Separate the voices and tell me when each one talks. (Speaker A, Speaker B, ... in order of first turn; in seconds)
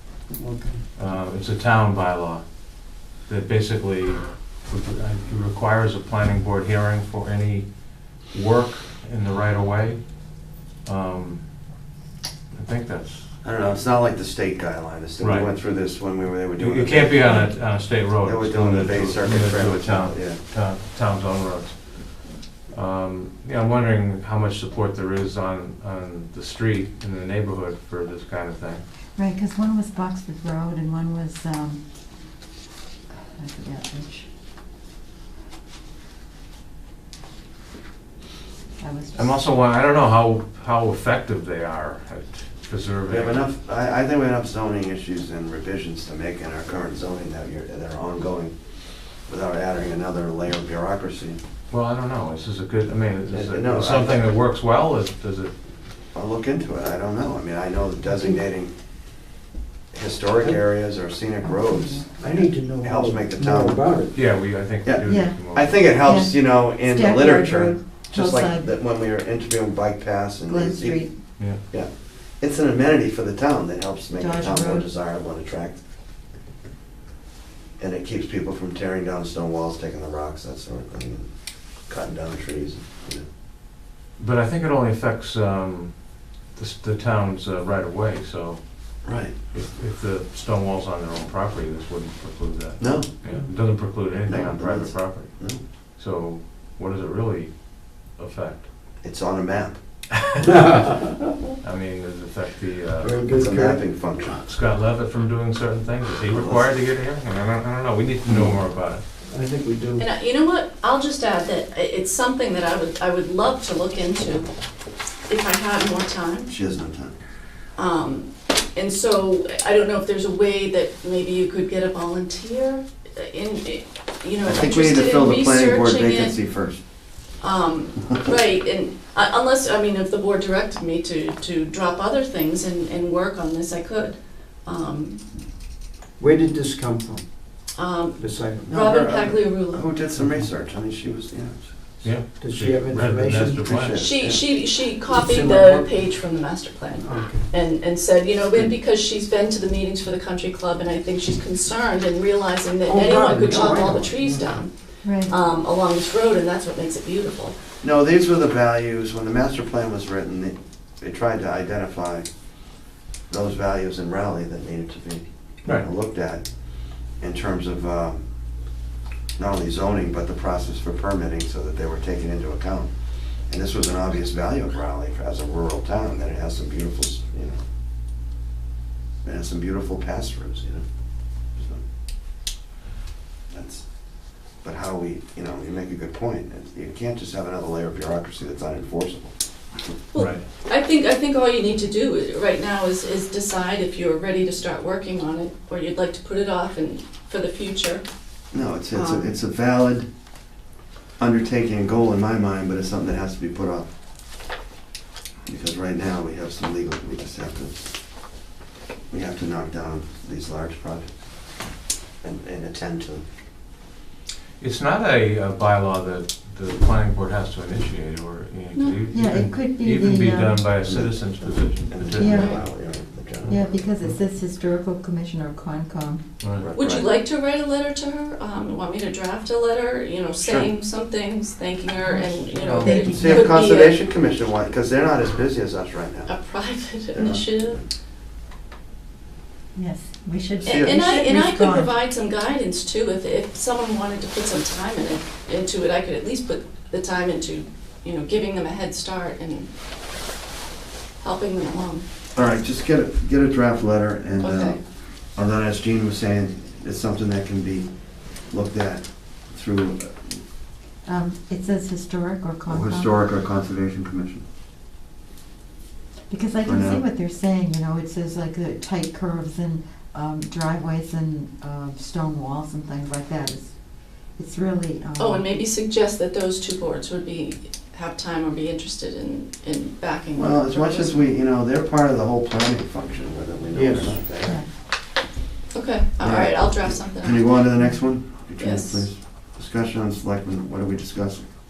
Speaker A: 0.3-0.8, 62.1-64.2, 93.2-93.8, 100.5-101.0, 103.0-104.2, 109.3-110.1, 136.2-137.5, 138.2-138.8, 140.2-140.5, 142.4-143.9, 145.0-146.1, 147.0-147.5, 152.9-154.7, 283.7-284.3
Speaker B: 1.0-10.1, 10.8-11.4, 12.5-13.3, 15.2-15.5, 16.6-28.8, 39.2-43.5, 51.7-55.5, 64.1-65.8, 84.2-98.7, 101.6-103.2, 104.5-109.0, 142.0-144.0, 190.2-190.4, 214.6-222.5, 226.4-226.7
Speaker C: 13.4-17.4, 18.2-20.4, 43.1-48.6, 49.3-51.4, 53.3-54.3, 56.1-58.7, 59.9-62.1, 62.8-63.9, 64.8-71.0, 71.6-75.8, 77.8-83.2, 89.0-89.3, 92.8-95.6, 99.0-99.8, 103.3-104.4, 106.3-106.8, 116.5-117.1, 124.4-126.8, 138.7-142.0, 143.7-144.5, 157.8-162.3, 163.3-166.4, 167.2-168.2, 169.4-172.9, 173.5-177.6, 179.2-180.8, 181.6-181.8, 183.5-183.8, 184.6-189.3, 198.5-200.1, 201.2-203.9, 205.5-207.8, 209.1-211.1, 212.2-213.2, 220.8-223.9, 226.6-227.1, 230.4-230.7, 232.9-236.3, 237.1-237.8, 240.7-241.0, 252.3-254.8, 255.4-257.9, 258.5-260.4, 262.7-264.4, 266.6-267.0, 280.4-284.6, 286.2-291.4
Speaker D: 17.2-17.5, 29.2-31.8, 33.4-34.3, 38.8-39.4, 58.1-58.4, 61.4-62.5, 65.0-65.4, 66.0-68.7, 70.5-71.3, 74.2-74.9, 155.0-155.3, 219.1-220.7, 222.2-222.6, 223.5-226.3, 232.0-233.7, 239.8-241.9, 261.1-263.2, 266.3-273.7, 274.3-275.5, 284.4-284.7
Speaker E: 110.0-114.5, 115.3-116.5, 117.8-126.4, 127.4-135.2, 137.7-139.9, 144.0-157.6, 190.1-198.1, 198.9-199.3, 218.8-219.0, 222.2-222.6, 226.7-234.1, 236.3-237.8, 240.6-249.7, 251.2-252.1, 254.4-254.8, 275.2-281.2, 285.7-287.5, 288.6-289.1